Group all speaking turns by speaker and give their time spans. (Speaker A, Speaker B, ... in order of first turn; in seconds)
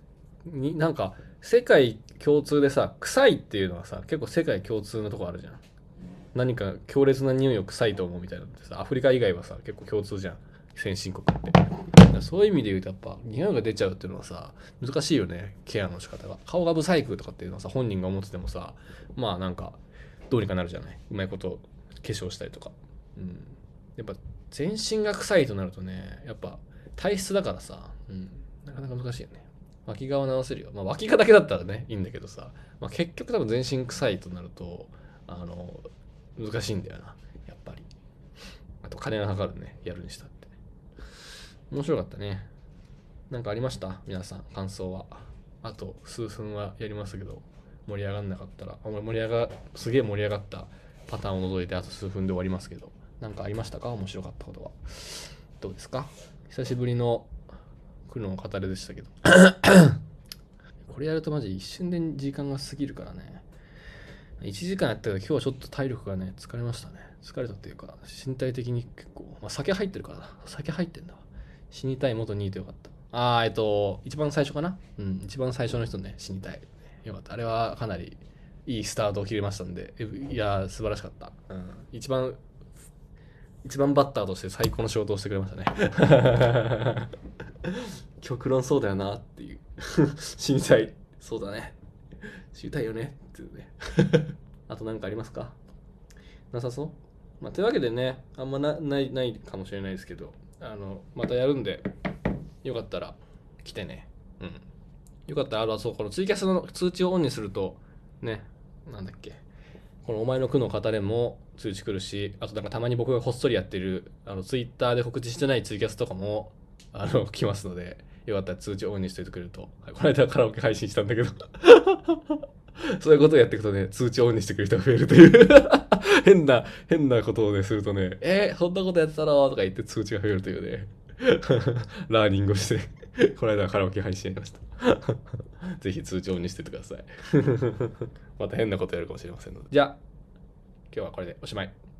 Speaker A: 0.4-5.6, 6.3-37.9, 38.8-40.5, 41.7-42.5, 43.3-57.3, 58.1-60.0, 60.9-63.4, 64.4-82.4, 83.6-87.1, 88.2-91.7, 92.5-95.5, 96.5-101.8, 102.6-104.6, 105.3-109.4, 110.0-122.4, 122.9-135.2, 135.8-140.0, 140.9-141.7